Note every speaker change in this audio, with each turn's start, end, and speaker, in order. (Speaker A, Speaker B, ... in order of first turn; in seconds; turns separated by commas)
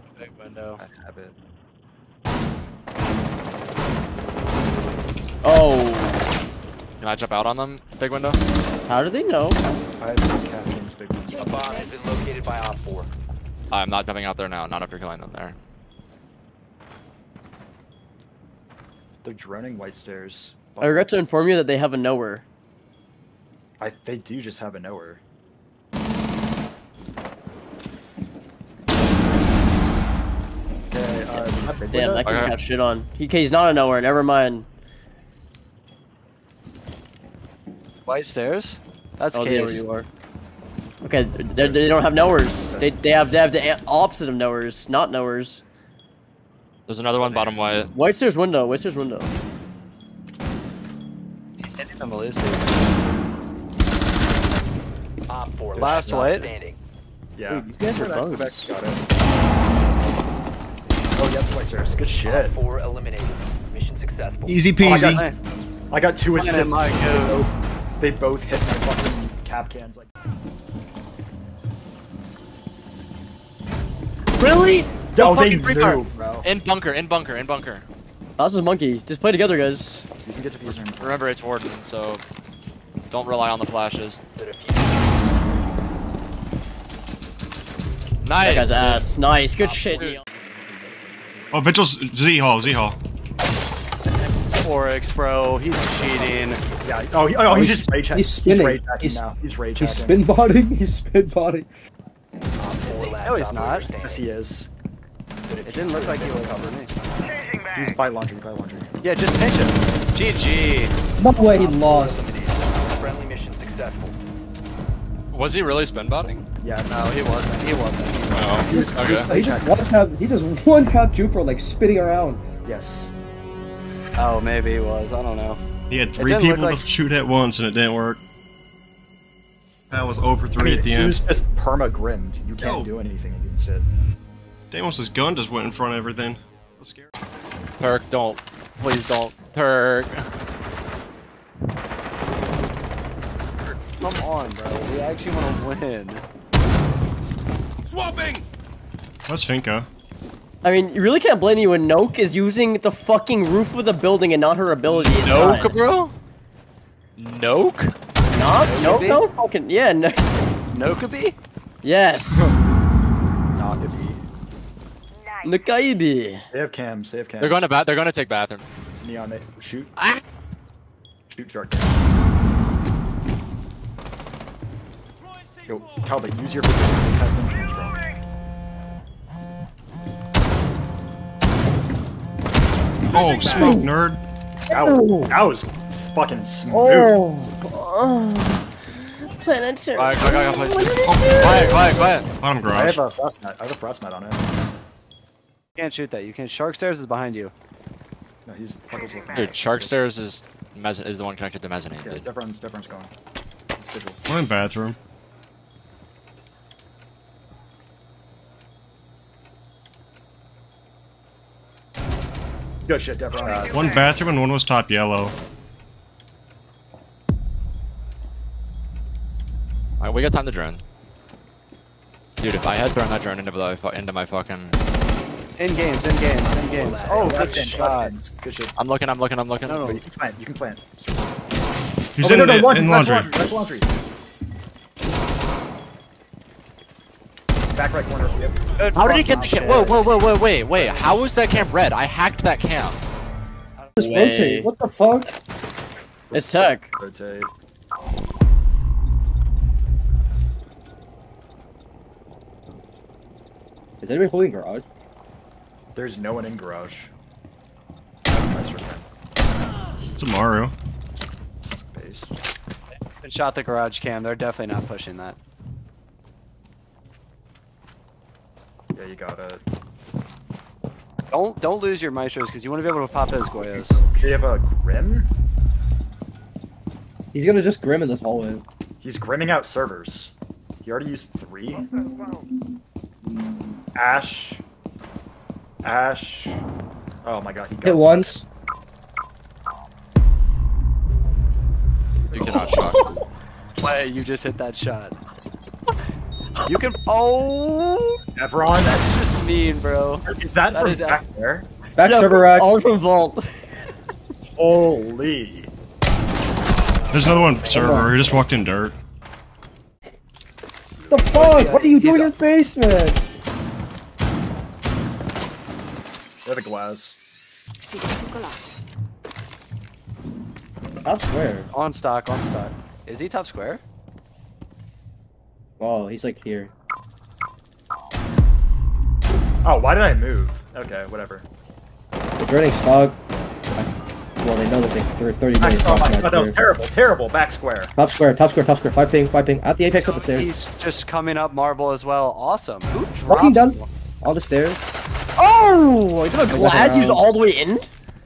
Speaker A: 0.1-0.8, Speaker B: 0.8-1.3, Speaker C: 5.4-6.2, Speaker D: 7.0-8.4, Speaker C: 8.9-9.6, Speaker B: 10.0-11.9, Speaker E: 11.5-13.1, Speaker D: 13.7-15.6, Speaker B: 19.2-21.1, Speaker C: 20.8-22.4, Speaker B: 23.8-25.2, Speaker B: 30.9-32.5, Speaker C: 31.3-34.7, Speaker D: 32.2-32.5, Speaker A: 38.0-39.8, Speaker C: 39.3-40.1, Speaker C: 41.0-45.6, Speaker B: 41.5-42.9, Speaker D: 46.9-47.9, Speaker A: 47.2-47.6, Speaker C: 47.9-49.3, Speaker A: 51.6-52.6, Speaker E: 55.3-56.8, Speaker A: 55.8-56.5, Speaker B: 57.4-59.0, Speaker C: 57.5-58.7, Speaker B: 61.2-62.5, Speaker E: 62.2-64.5, Speaker B: 64.8-65.3, Speaker A: 64.8-65.3, Speaker B: 65.9-70.1, Speaker A: 66.3-67.4, Speaker D: 74.4-77.8, Speaker B: 75.1-76.5, Speaker C: 78.4-80.0, Speaker B: 80.2-81.3, Speaker D: 80.9-82.2, Speaker D: 83.1-84.2, Speaker E: 84.3-85.2, Speaker D: 88.2-90.2, Speaker C: 88.4-90.2, Speaker F: 91.5-93.0, Speaker A: 94.5-96.6, Speaker E: 96.1-96.8, Speaker B: 96.8-100.2, Speaker G: 97.5-99.2, Speaker G: 99.8-101.7, Speaker E: 102.6-104.3, Speaker A: 102.8-103.9, Speaker B: 104.0-104.7, Speaker E: 105.5-106.7, Speaker A: 105.6-106.9, Speaker B: 107.7-108.9, Speaker A: 109.0-110.9, Speaker G: 111.2-112.2, Speaker B: 111.9-112.4, Speaker E: 112.7-114.2, Speaker D: 115.3-116.4, Speaker A: 116.1-119.1, Speaker B: 116.6-117.1, Speaker D: 118.3-119.3, Speaker B: 118.5-119.8, Speaker G: 118.7-122.4, Speaker B: 122.6-123.1, Speaker A: 124.2-125.6, Speaker F: 125.9-128.2, Speaker A: 126.2-126.8, Speaker F: 129.9-131.2, Speaker B: 130.6-133.8, Speaker F: 132.6-132.9, Speaker F: 134.7-137.1, Speaker D: 137.8-140.2, Speaker A: 144.0-146.2, Speaker F: 149.3-149.9, Speaker C: 150.6-155.7, Speaker D: 154.9-156.1, Speaker D: 157.2-157.9, Speaker C: 158.3-160.2, Speaker A: 158.6-159.2, Speaker A: 160.7-161.3, Speaker C: 161.8-162.5, Speaker B: 163.6-164.2, Speaker C: 165.4-166.4, Speaker B: 166.5-167.7, Speaker D: 167.4-168.6, Speaker B: 169.0-169.9, Speaker D: 169.9-170.2, Speaker B: 171.3-171.9, Speaker B: 175.7-178.0, Speaker F: 183.1-184.2, Speaker B: 183.1-183.9, Speaker C: 183.5-183.8, Speaker C: 184.7-185.3, Speaker B: 184.7-187.2, Speaker C: 186.7-191.9, Speaker D: 189.9-192.3, Speaker F: 191.0-191.9, Speaker F: 192.4-193.0, Speaker B: 192.7-194.4, Speaker A: 195.8-197.5, Speaker B: 198.4-200.1, Speaker D: 199.3-202.2, Speaker B: 201.9-203.1, Speaker B: 203.8-204.2, Speaker F: 204.3-205.0, Speaker B: 212.9-214.0, Speaker F: 213.7-215.3, Speaker D: 220.0-220.8, Speaker D: 222.4-224.8, Speaker A: 225.6-228.1, Speaker E: 226.6-227.9, Speaker B: 227.0-228.7, Speaker D: 228.8-229.9, Speaker A: 229.7-230.0, Speaker B: 229.8-231.4, Speaker F: 232.2-233.3, Speaker B: 232.2-233.9, Speaker B: 237.7-240.1, Speaker A: 238.8-241.2, Speaker D: 238.9-243.0, Speaker G: 244.0-245.3, Speaker C: 244.0-244.7, Speaker B: 246.3-247.5, Speaker C: 246.3-246.9, Speaker G: 254.0-254.8, Speaker B: 255.9-257.1, Speaker B: 258.3-259.1, Speaker F: 260.1-260.7, Speaker B: 261.8-262.4, Speaker A: 262.9-265.4, Speaker B: 268.9-269.6, Speaker A: 271.3-274.0, Speaker B: 273.6-275.3, Speaker G: 277.3-278.6, Speaker B: 279.0-281.9, Speaker B: 283.9-284.6, Speaker B: 285.8-286.6, Speaker B: 287.2-288.2, Speaker G: 287.8-288.4, Speaker D: 292.3-293.2, Speaker B: 292.4-293.1, Speaker C: 292.4-293.1, Speaker A: 293.8-295.2, Speaker A: 296.6-298.2, Speaker B: 298.4-299.0, Speaker A: 298.8-301.2, Speaker B: 300.3-301.7, Speaker G: 302.0-302.7, Speaker C: 302.0-303.5, Speaker B: 304.6-305.7, Speaker F: 307.1-308.9, Speaker G: 307.7-308.1, Speaker A: 311.0-312.3, Speaker G: 311.1-313.2, Speaker B: 316.4-317.2, Speaker G: 321.0-321.7, Speaker A: 321.7-323.8, Speaker G: 325.8-326.7, Speaker B: 329.6-331.4, Speaker G: 332.4-333.2, Speaker G: 333.7-336.6, Speaker B: 335.6-337.9, Speaker G: 337.9-340.5, Speaker A: 339.9-343.9, Speaker G: 343.2-344.9, Speaker C: 345.4-347.9, Speaker G: 346.5-347.3